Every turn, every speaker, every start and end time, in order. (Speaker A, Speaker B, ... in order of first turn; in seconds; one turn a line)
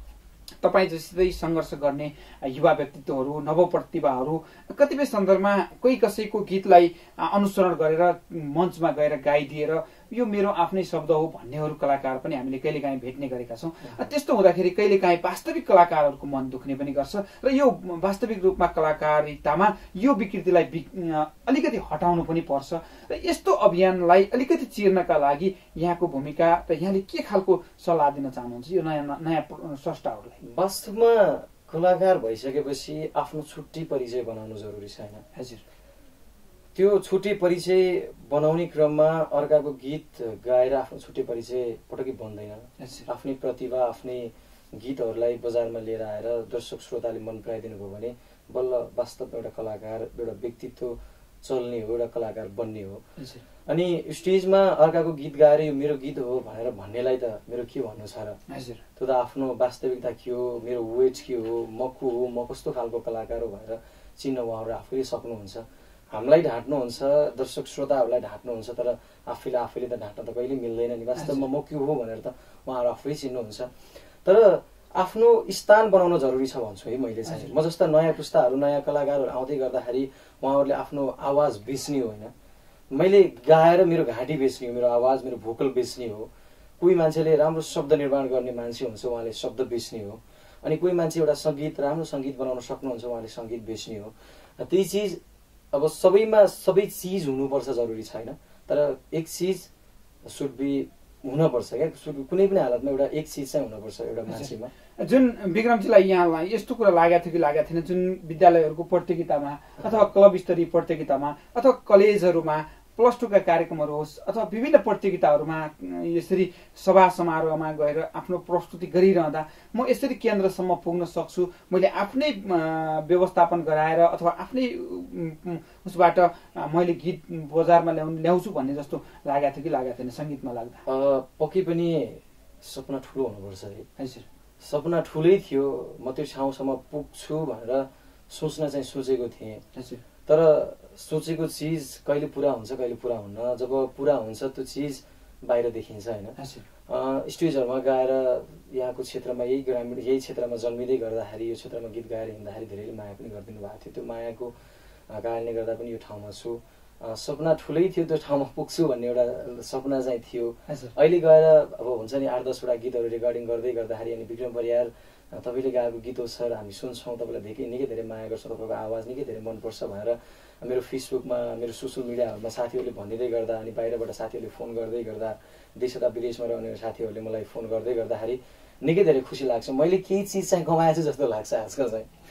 Speaker A: 0.6-30.4
Speaker B: 30.4-35.2
Speaker A: 35.3-35.6
Speaker B: 36.7-53.0
Speaker A: 42.8-43.1
Speaker A: 53.2-53.4
Speaker B: 53.6-58.4
Speaker A: 58.5-58.8
Speaker B: 59.0-73.7
Speaker A: 71.2-71.5
Speaker B: 74.2-82.3
Speaker A: 77.2-77.5
Speaker B: 82.9-86.3
Speaker B: 86.8-95.2
Speaker B: 95.7-99.7
Speaker B: 100.2-104.7
Speaker A: 104.3-130.8
Speaker B: 109.8-110.0
Speaker B: 130.8-133.9
Speaker A: 134.0-134.2
Speaker B: 134.6-139.6
Speaker A: 139.7-140.0
Speaker B: 140.2-154.5
Speaker A: 146.4-146.6
Speaker B: 155.1-182.1
Speaker A: 160.7-160.9